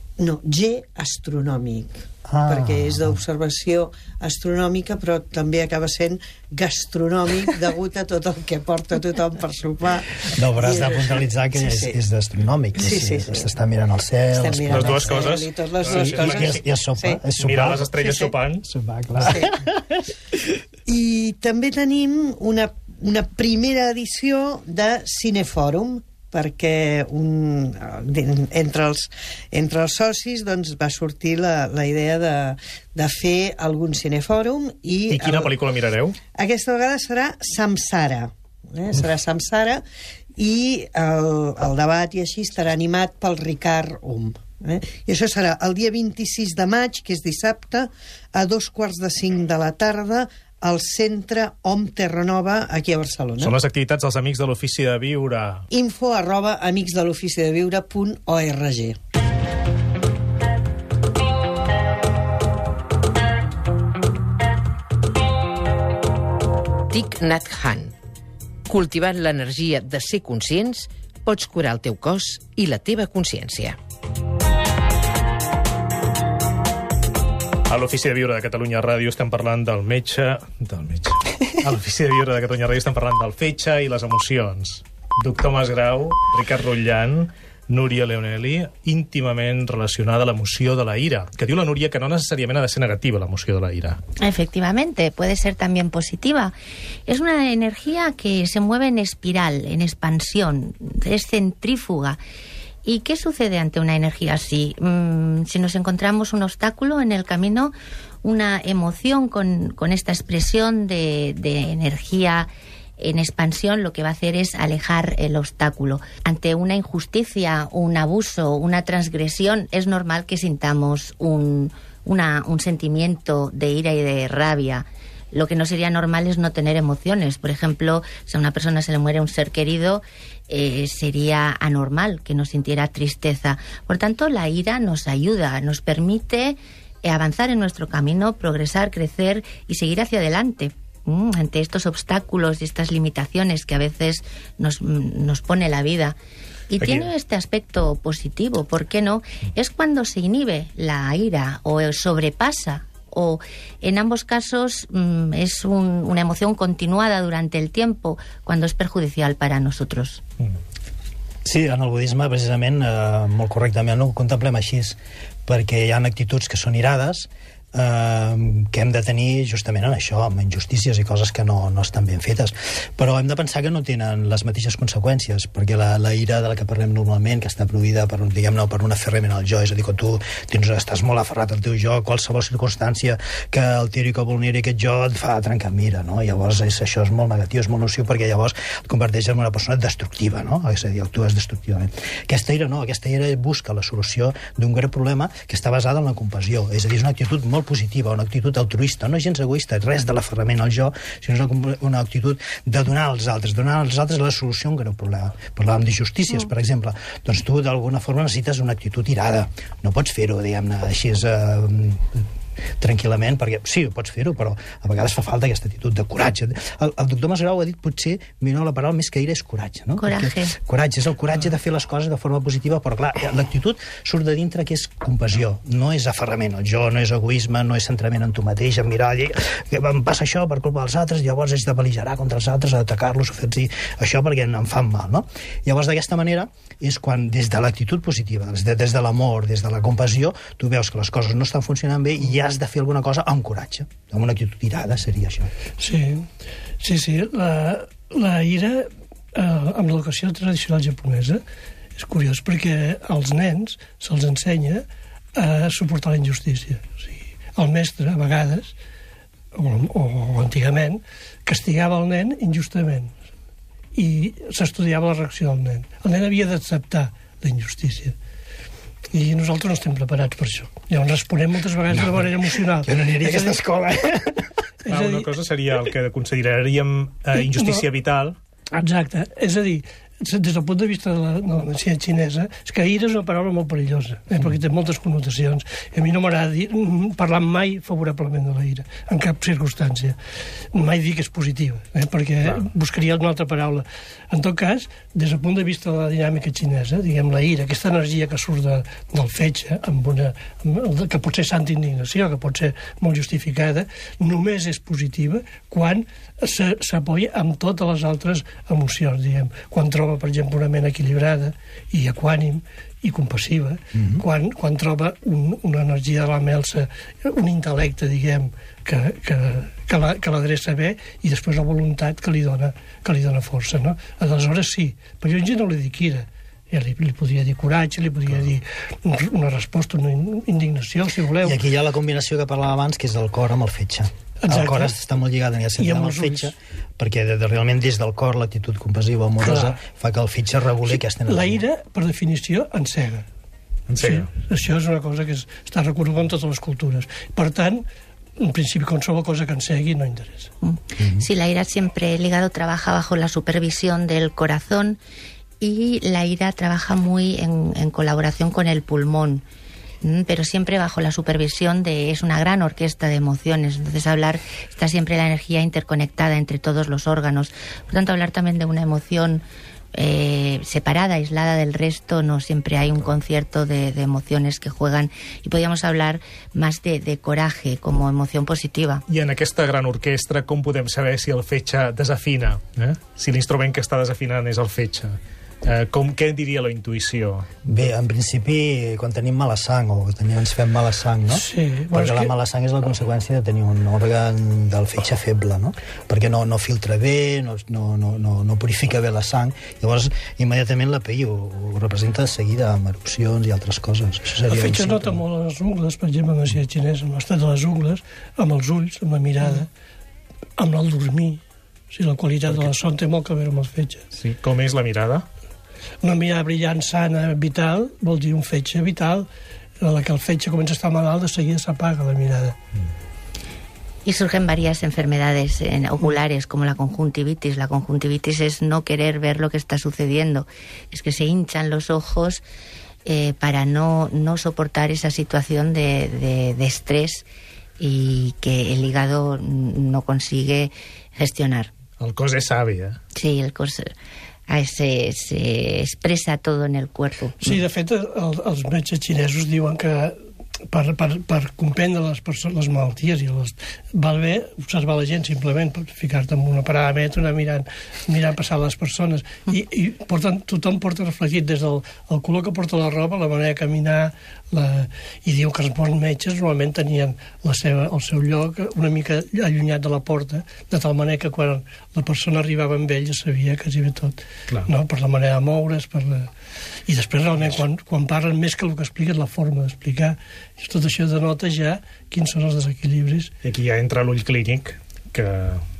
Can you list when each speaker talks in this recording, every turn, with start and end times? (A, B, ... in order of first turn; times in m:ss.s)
0:00.2-0:12.0 A
0:02.2-0:03.2 B
0:10.3-0:15.2 B
0:12.8-0:13.5 A
0:14.3-0:17.2 A
0:14.7-0:16.7 C
0:15.8-0:19.9 B
0:17.3-0:18.7 C
0:18.0-0:18.3 A
0:19.2-0:19.6 A
0:20.9-0:35.6 A
0:35.1-0:36.2 C
0:36.4-0:39.8 A
0:40.4-0:53.6 A
0:53.4-0:55.6 C
0:55.7-0:59.0 A
1:06.9-1:07.9 D
1:08.7-1:13.8 D
1:17.7-1:34.0 C
1:34.2-1:36.5 E
1:37.1-1:42.2 E
1:42.8-2:26.2 E
2:26.7-2:40.2 E
2:26.8-2:27.1 C
2:41.4-3:32.2 B
3:32.8-4:05.5 B
3:40.0-3:40.5 E
4:05.8-4:06.3 F
4:06.8-4:11.4 F
4:12.0-4:18.7 F
4:19.5-4:23.1 F
4:23.9-4:28.2 F
4:29.1-4:33.6 F
4:32.0-4:32.2 B
4:32.8-4:34.5 B
4:34.8-4:35.3 F
4:34.9-4:38.4 C
4:37.3-4:37.8 F
4:38.8-4:50.2 F
4:50.7-5:31.6 F
5:13.9-5:14.2 B
5:31.4-5:41.6 B
5:34.4-5:35.0 F
5:35.8-5:36.5 F
5:39.4-5:39.8 F
5:40.9-5:43.2 F
5:43.9-5:44.3 C
5:44.0-5:47.8 F
5:48.4-5:50.5 F
5:50.6-5:55.0 E
5:55.6-5:59.4 E
6:00.0-6:09.4 E
6:09.9-6:19.0 E
6:19.1-6:27.5 C
6:27.6-6:45.2 B
6:31.3-6:32.3 F
6:44.4-6:49.7 F
6:50.6-6:54.0 F
6:54.1-6:55.2 C
6:56.0-6:59.3 F
6:59.8-7:02.6 F
7:04.0-7:12.4 E
7:13.0-7:17.2 E
7:17.8-7:21.7 E
7:22.0-7:23.0 C
7:23.1-7:23.9 E
7:24.5-7:27.4 E
7:27.4-7:30.2 F
7:30.7-7:56.3 F
7:56.9-8:03.3 F
8:03.4-8:05.6 C